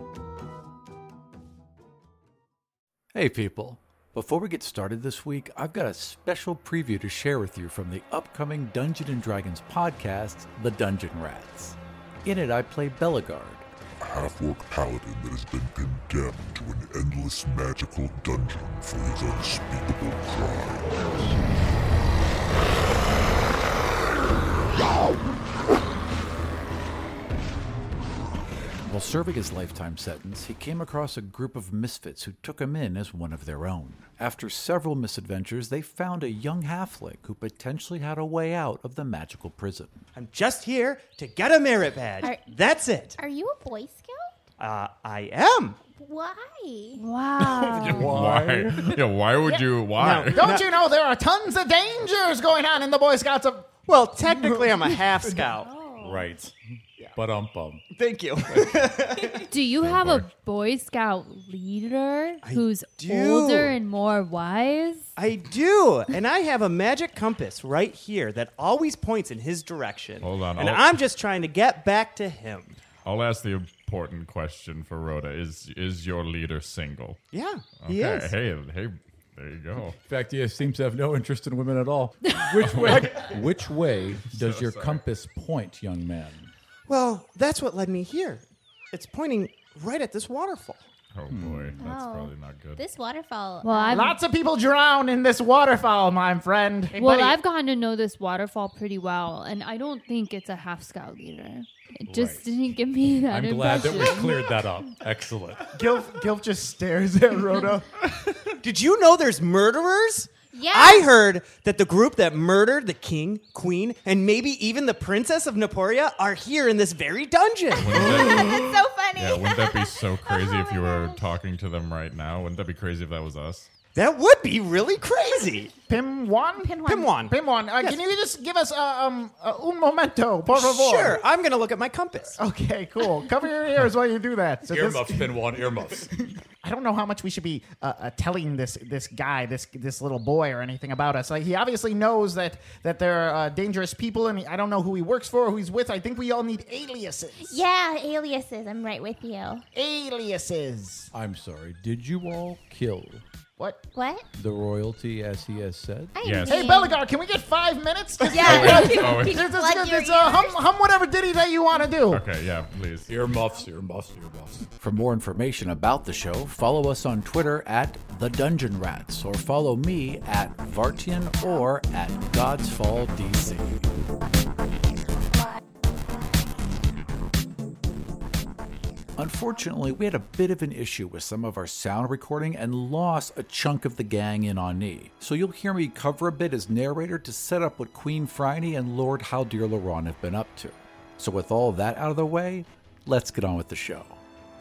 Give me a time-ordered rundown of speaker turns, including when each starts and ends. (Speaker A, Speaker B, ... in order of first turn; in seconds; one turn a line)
Speaker A: 3.1-13.7
Speaker B: 14.0-21.4
Speaker A: 28.8-40.0
Speaker C: 40.1-43.2
Speaker D: 43.2-44.3
Speaker C: 44.6-45.8
Speaker D: 46.0-47.0
Speaker E: 47.0-48.2
Speaker F: 47.7-50.5
Speaker C: 50.0-50.7
Speaker G: 50.4-53.8
Speaker C: 53.9-55.7
Speaker D: 55.5-56.3
Speaker A: 56.0-56.5
Speaker A: 57.1-57.8
Speaker C: 57.9-59.5
Speaker E: 59.5-65.1
Speaker F: 59.8-60.3
Speaker C: 62.4-63.7
Speaker C: 65.2-72.8
Speaker F: 70.2-71.0
Speaker F: 73.0-77.2
Speaker C: 77.3-78.3
Speaker F: 77.8-80.0
Speaker A: 80.0-86.5
Speaker F: 84.4-85.0
Speaker C: 86.9-90.8
Speaker F: 91.1-92.8
Speaker D: 91.8-94.1
Speaker E: 93.6-94.2
Speaker G: 93.9-97.4
Speaker E: 96.9-104.5
Speaker A: 102.1-102.4
Speaker A: 103.3-105.8
Speaker G: 105.7-107.9
Speaker C: 108.6-118.4
Speaker D: 110.5-111.1
Speaker F: 117.8-123.7
Speaker D: 117.9-121.3
Speaker C: 124.0-125.7
Speaker G: 125.8-131.2
Speaker C: 126.8-128.0
Speaker C: 130.5-132.4
Speaker G: 132.4-136.1
Speaker A: 134.7-136.1
Speaker G: 136.6-147.6
Speaker D: 147.4-149.7
Speaker G: 149.7-151.1
Speaker A: 151.1-153.2
Speaker G: 153.6-153.9
Speaker D: 153.9-154.3
Speaker A: 154.4-156.2
Speaker D: 156.2-157.0
Speaker F: 156.2-156.7
Speaker G: 156.4-162.2
Speaker D: 158.2-160.6
Speaker F: 158.4-159.6
Speaker F: 162.0-163.1
Speaker A: 163.1-173.9
Speaker A: 179.2-194.2